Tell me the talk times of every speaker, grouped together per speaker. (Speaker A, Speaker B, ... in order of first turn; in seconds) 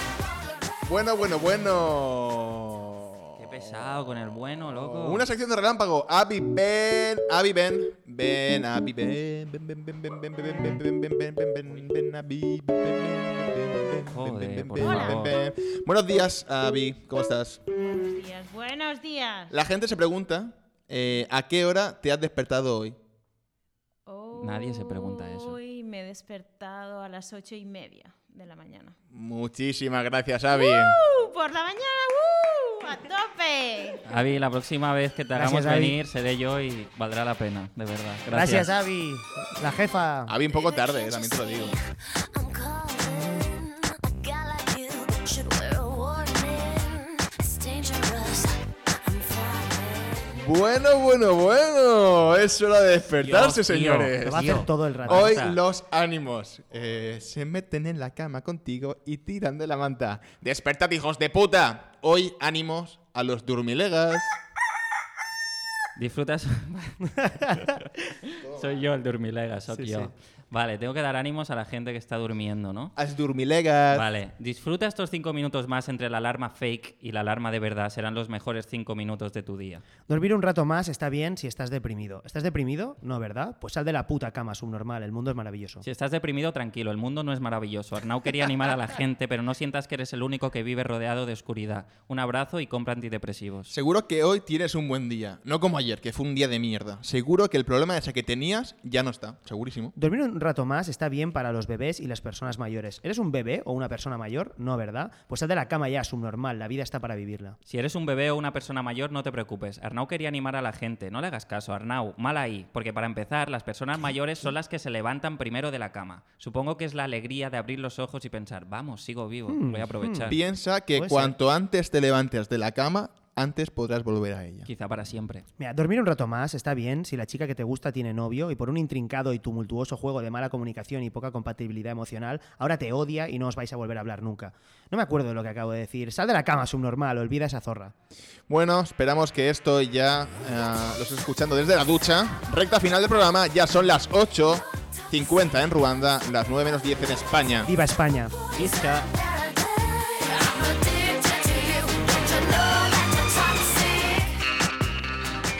Speaker A: 0.8-4.0, 4.8-17.6, 19.5-23.0, 29.1-31.0, 40.2-41.8, 50.3-64.4, 68.4-68.8, 73.0-74.1, 93.7-99.9, 120.3-124.7, 138.5-147.7, 148.6-148.9
Speaker B: 3.4-5.3, 14.1-15.3, 24.4-25.6, 34.0-38.7, 53.1-55.6, 66.0-72.9, 73.9-79.8, 85.8-93.7, 107.7-120.4, 124.7-125.5, 148.6-149.0
Speaker C: 14.8-15.2, 17.8-19.6, 24.1-28.9, 30.5-34.0
Speaker D: 35.3-36.0, 38.3-40.4, 54.2-55.3, 69.7-70.1, 80.1-85.8, 100.0-107.6, 119.5-120.3, 120.9-121.3, 125.6-137.9, 147.6-148.3
Speaker E: 42.3-48.5, 49.0-49.9, 150.8-152.1